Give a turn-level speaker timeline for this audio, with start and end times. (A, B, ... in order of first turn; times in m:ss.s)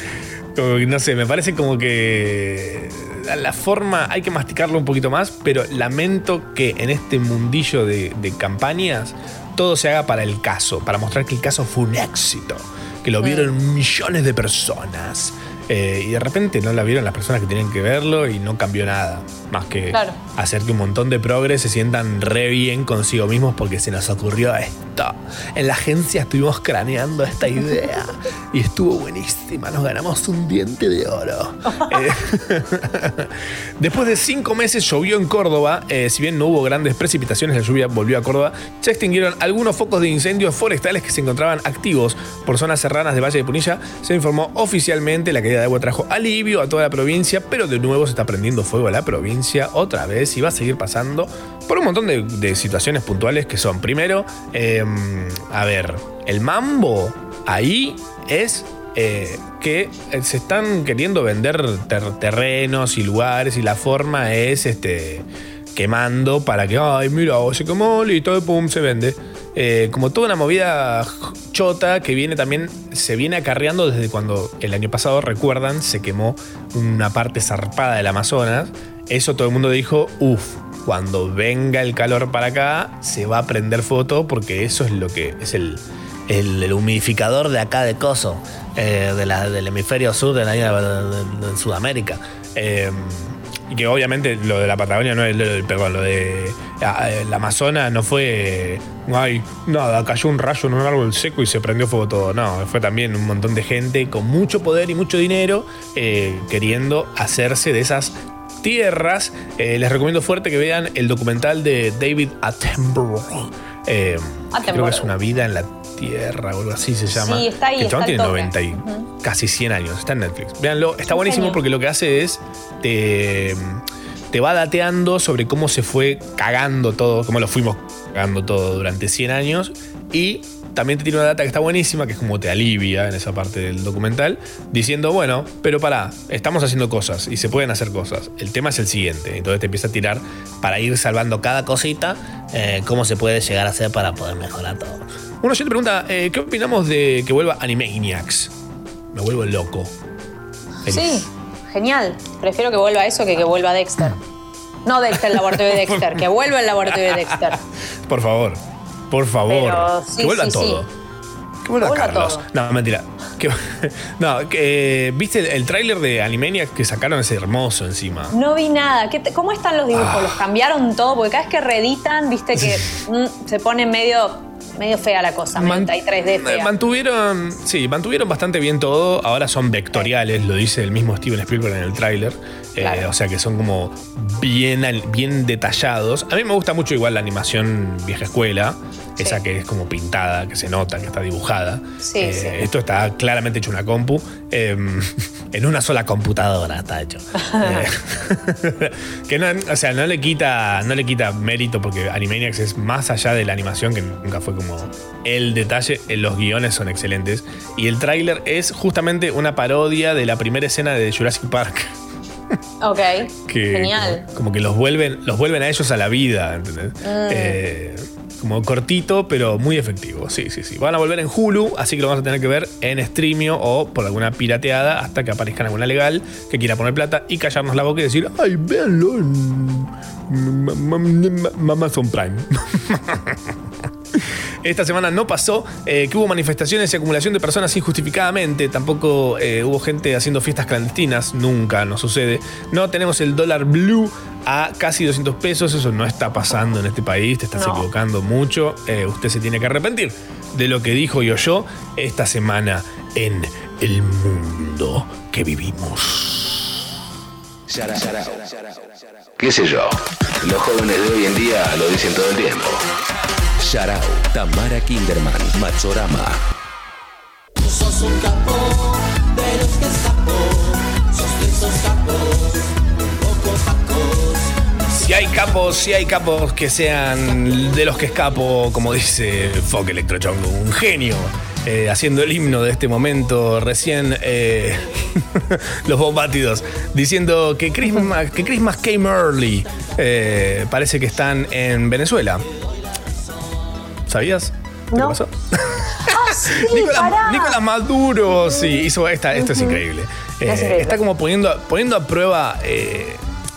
0:00.5-2:28.5 A
0:13.2-0:13.5 B
0:19.9-0:20.2 B
1:54.5-1:55.1 B
1:57.1-1:59.1 B
2:01.1-2:01.6 B
2:29.1-2:29.9 A
2:30.8-2:31.3 A
2:30.8-2:34.2 B
2:34.8-2:37.6 B
2:35.3-2:36.2 A
2:36.8-2:40.9 A
2:39.5-2:40.8 B
2:41.6-2:48.3 A
2:41.8-2:42.4 B
2:48.3-2:56.7 B
2:49.9-2:50.4 A
2:55.6-3:31.9 A
3:02.8-3:03.1 B
3:12.0-3:12.6 B
3:17.4-3:17.9 B
3:32.8-3:34.2 B
3:33.5-3:53.5 A
3:37.0-3:37.6 B
3:54.1-4:16.9 A
4:07.5-4:07.9 B
4:17.7-4:22.8 C
4:23.6-4:26.4 C
4:34.9-4:52.4 A
4:54.1-5:03.2 A
4:54.9-4:55.2 B
4:56.0-4:57.6 B
4:59.4-4:59.8 B
5:00.4-5:01.0 B